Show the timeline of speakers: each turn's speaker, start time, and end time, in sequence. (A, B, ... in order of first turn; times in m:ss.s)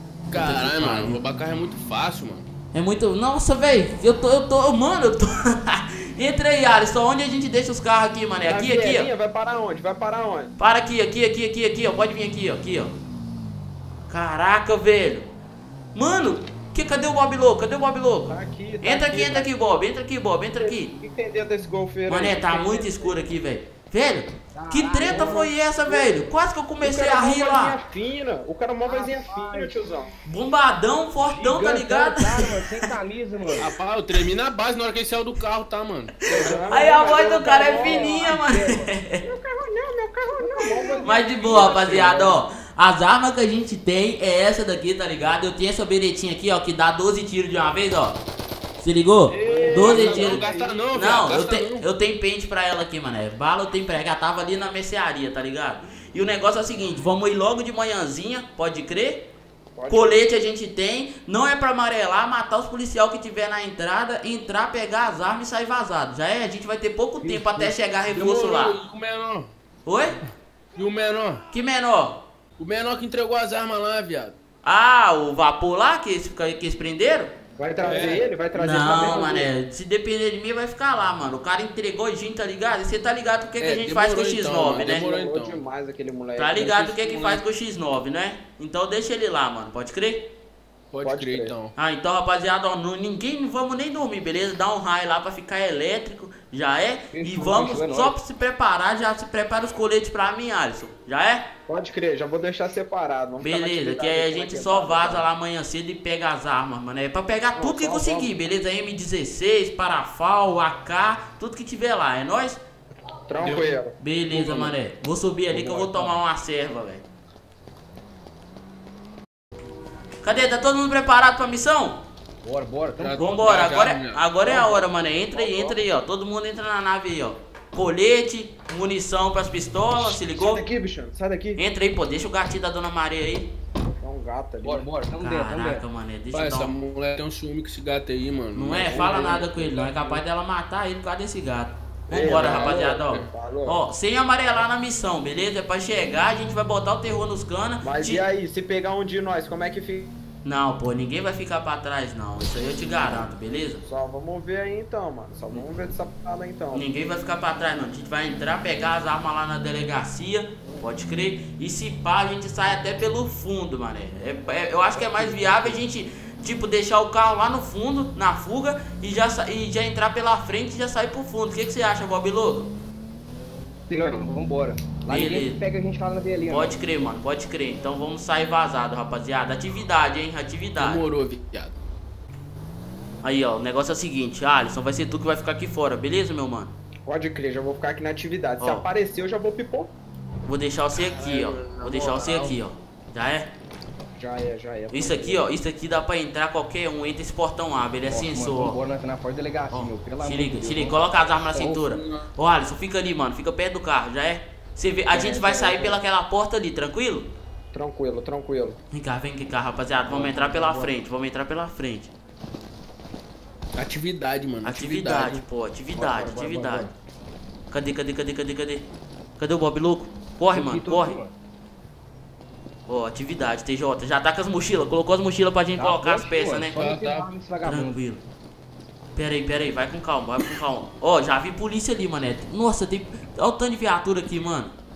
0:00.3-0:02.5 A
0:00.3-0:01.2 B
0:02.7-0:09.1 B
0:08.5-0:10.5 C
0:10.6-0:12.9 B
0:14.1-0:15.3 B
0:15.9-0:20.9 B
0:18.3-0:19.5 C
0:20.6-0:23.2 C
0:22.1-0:27.8 B
0:24.6-0:25.5 D
0:25.0-0:26.3 C
0:26.8-0:30.1 C
0:28.8-0:29.9 D
0:30.3-0:32.5 B
0:31.2-0:33.7 D
0:33.6-0:36.6 A
0:36.3-0:38.2 C
0:36.4-0:39.2 B
0:37.7-0:38.9 D
0:39.2-0:42.4 C
0:40.4-0:42.4 D
0:41.0-0:48.2 B
0:48.8-0:59.3 B
0:49.3-0:50.8 C
0:49.5-0:51.9 A
0:59.8-1:00.2 C
0:59.9-1:08.8 B
1:07.2-1:07.8 D
1:08.1-1:09.5 A
1:09.9-1:10.2 B
1:10.8-1:11.4 A
1:11.5-1:12.2 B
1:12.6-1:14.4 A
1:14.6-1:17.3 B
1:17.6-1:19.5 C
1:17.8-1:18.3 A
1:18.5-1:25.1 B
1:23.6-1:25.6 A
1:24.5-1:27.4 C
1:26.4-1:30.3 B
1:30.9-1:31.7 A
1:31.0-1:31.5 C
1:31.8-1:41.4 B
1:37.1-1:38.2 D
1:41.7-1:45.3 C
1:43.4-1:52.6 B
1:47.6-1:48.3 C
1:53.3-1:53.9 C
1:53.4-1:53.8 A
1:53.9-1:57.0 B
1:54.3-1:54.8 A
2:00.2-2:02.0 B
2:02.4-2:03.2 D
2:03.0-2:04.3 A
2:03.1-2:10.6 B
2:04.4-2:05.8 C
2:10.0-2:11.6 C
2:11.6-2:13.5 B
2:14.0-2:14.9 C
2:14.6-2:15.8 D
2:15.2-2:16.8 B
2:16.3-2:19.1 A
2:18.6-2:28.3 B
2:18.9-2:20.2 C
2:22.1-2:23.8 C
2:22.5-2:23.0 D
2:22.6-2:23.3 A
2:27.8-2:30.1 C
2:30.4-2:33.8 B
2:33.8-2:36.8 C
2:36.7-2:52.7 B
2:45.0-2:45.7 D
2:53.9-2:56.8 D
2:55.1-2:55.6 B
2:56.5-3:01.0 B
3:00.8-3:01.8 A
3:03.2-3:06.7 B
3:07.1-3:09.9 C
3:08.6-3:08.9 B
3:10.5-3:13.5 B
3:11.0-3:12.6 A
3:14.2-3:15.4 C
3:14.9-3:18.8 B
3:18.1-3:21.1 D
3:19.7-3:27.3 B
3:21.6-3:22.3 A
3:25.1-3:26.0 C
3:27.7-3:28.8 C
3:28.9-3:32.1 B
3:30.1-3:30.9 D
3:33.8-3:35.4 A
3:34.6-3:36.9 B
3:36.0-3:36.9 D
3:37.7-3:38.8 B
3:39.4-3:41.2 B
3:40.5-3:41.3 D
3:42.9-3:46.8 B
3:45.8-3:48.0 D
3:46.8-3:47.3 A
3:47.6-3:48.2 B
3:49.2-3:54.7 B